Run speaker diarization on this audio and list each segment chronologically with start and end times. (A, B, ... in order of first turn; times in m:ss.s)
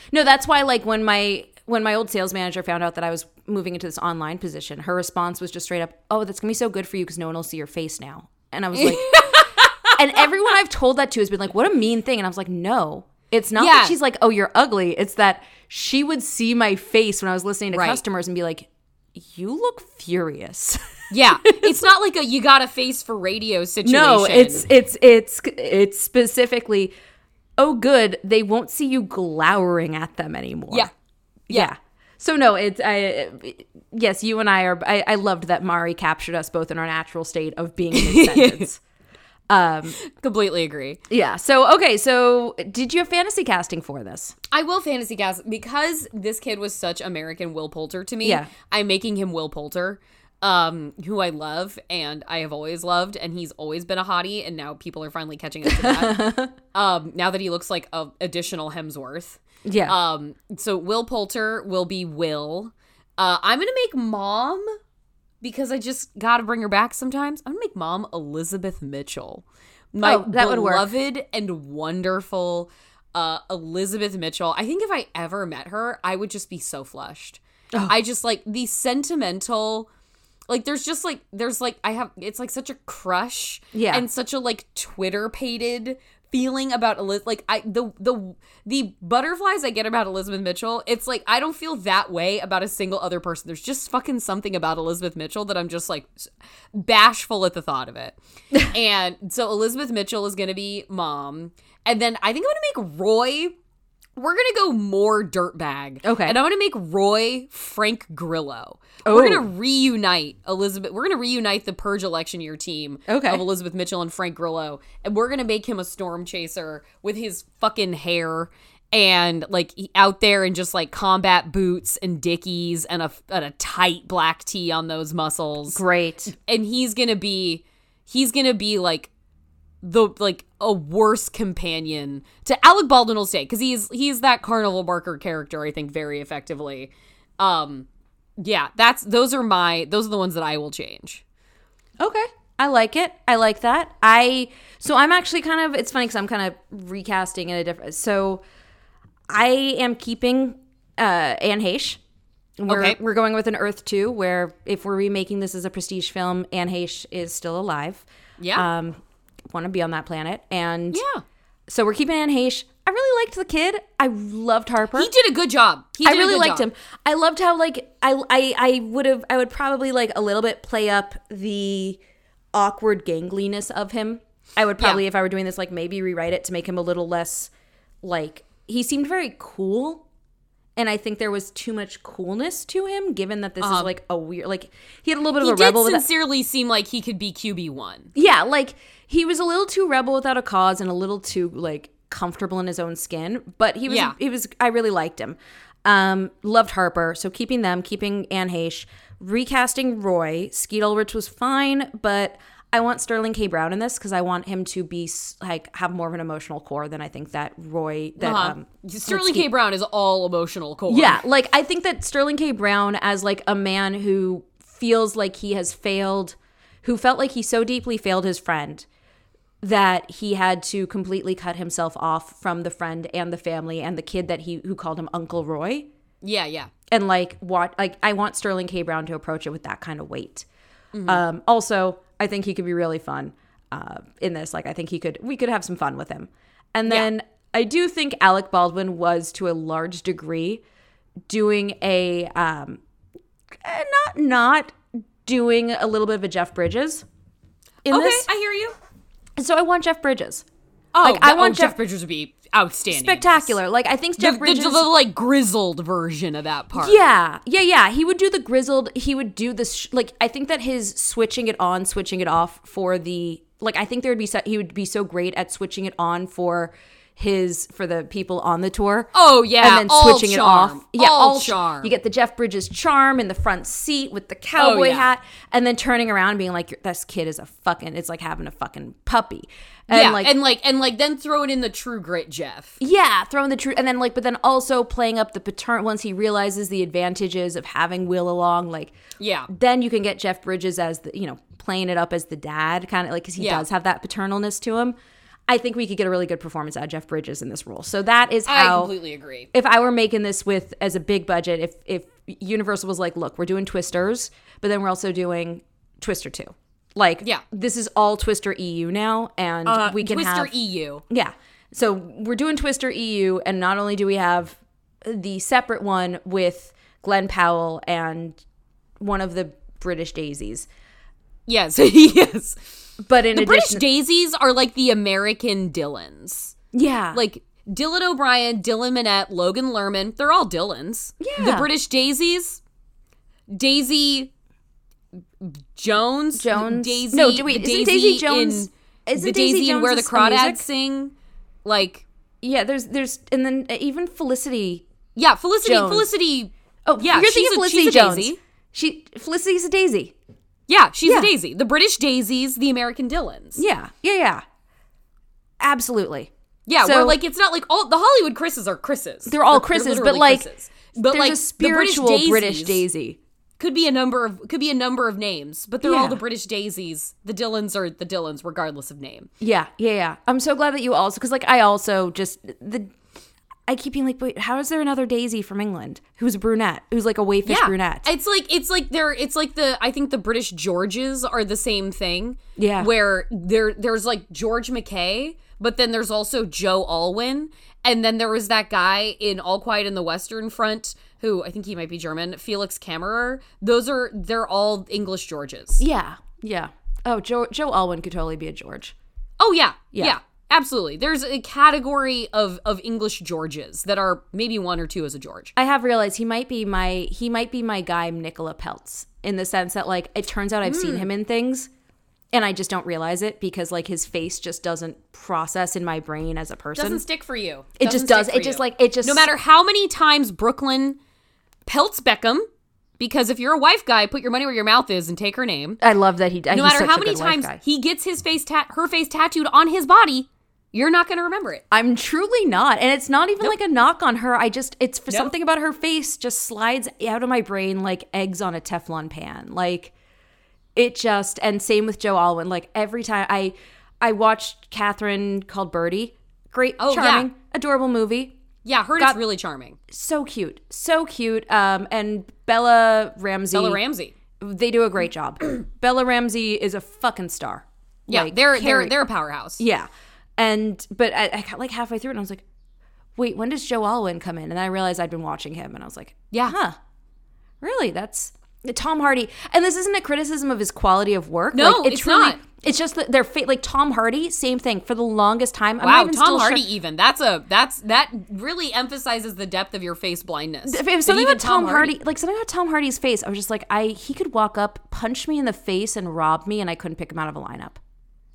0:00.1-0:21.8 A
0:08.7-0:10.0 B
0:13.6-0:13.9 B
0:17.7-0:18.0 B
0:21.1-0:24.7 B
0:23.8-0:26.9 A
0:27.6-0:30.9 A
0:31.5-0:38.8 A
0:37.9-0:38.7 B
0:39.5-0:40.0 A
0:40.0-0:41.0 B
0:41.1-0:44.3 A
0:44.5-1:04.7 B
0:48.2-0:48.5 A
0:55.7-0:56.5 A
0:59.6-1:00.0 A
1:05.4-1:19.9 B
1:10.0-1:10.9 A
1:20.5-1:43.6 B
1:23.7-1:24.0 A
1:44.2-2:05.8 B
1:46.0-1:46.4 A
1:49.0-1:49.5 A
1:53.1-1:53.4 A
2:05.7-2:06.3 A
2:06.3-2:09.1 B
2:09.8-2:17.9 B
2:18.4-2:21.2 B
2:22.0-2:28.4 A
2:29.3-2:32.0 A
2:32.6-2:41.0 A
2:32.7-2:33.0 B
2:38.4-2:38.7 B
2:40.9-2:41.2 B
2:41.7-2:45.1 A
2:44.9-2:46.7 B
2:46.0-2:52.0 A
2:52.5-2:57.5 A
2:58.0-3:00.0 A
3:00.8-3:06.0 A
3:03.6-3:03.9 B
3:05.4-3:08.1 B
3:08.2-3:29.5 A
3:13.9-3:14.2 B
3:28.2-3:31.2 B
3:30.9-3:38.8 A
3:39.6-3:45.9 A
3:46.2-3:46.7 B
3:46.9-3:50.4 A
3:50.9-3:51.2 B
3:51.0-4:00.6 A
4:01.3-4:02.8 A
4:03.6-4:07.0 A
4:07.8-4:08.3 A
4:07.9-4:08.8 B
4:09.4-4:10.4 A
4:10.9-4:13.6 B
4:11.0-4:11.8 A
4:12.9-4:14.9 A
4:14.2-4:17.0 B
4:16.8-4:40.3 A
4:29.1-4:31.9 B
4:34.6-4:35.1 B
4:39.9-4:42.8 B
4:42.8-4:48.9 A
4:49.2-4:49.5 B
4:49.5-4:54.9 A
4:53.4-4:53.6 B
4:55.5-4:58.9 A
4:58.4-4:59.5 B
4:59.5-5:10.5 A
5:09.6-5:11.0 B
5:11.1-5:18.4 A
5:19.0-5:20.7 A
5:21.5-5:22.8 B
5:23.0-5:23.8 A
5:23.3-5:26.6 B
5:26.7-5:27.2 A
5:27.1-5:32.6 B
5:31.2-5:31.7 A
5:33.5-5:34.3 B
5:35.4-5:41.1 B
5:36.4-5:40.6 A
5:41.6-5:42.0 B
5:42.4-5:44.8 A
5:45.2-5:48.4 B
5:45.6-5:46.1 A
5:46.8-5:50.1 A
5:50.7-5:53.6 B
5:51.0-5:51.3 A
5:53.6-5:54.4 A
5:55.6-5:56.3 A
5:56.7-6:02.8 B
5:56.8-5:57.2 A
5:59.3-6:00.5 A
6:01.0-6:03.2 A
6:03.6-6:09.3 B
6:05.8-6:06.2 A
6:09.4-6:12.9 A
6:13.7-6:18.1 A
6:17.4-6:35.8 B
6:22.6-6:22.9 A
6:35.8-6:38.9 A
6:39.4-6:45.5 B
6:39.9-6:40.2 A
6:45.6-6:51.7 A
6:50.6-6:51.1 B
6:52.3-6:57.0 A
6:56.7-7:01.0 B
6:57.8-6:59.3 A
7:01.6-7:02.5 B
7:03.0-7:05.8 B
7:05.8-7:07.6 A
7:06.5-7:11.6 B
7:11.7-7:19.9 A
7:20.7-7:28.4 A
7:26.8-7:27.3 B
7:28.6-7:29.8 B
7:29.9-7:33.8 A
7:33.5-7:34.1 B
7:34.4-7:38.9 A
7:38.1-7:39.6 B
7:39.6-7:42.4 A
7:43.2-7:46.8 A
7:46.3-7:46.6 B
7:47.6-7:56.6 A
7:51.5-7:52.4 B
7:55.8-8:02.0 B
8:00.6-8:07.8 A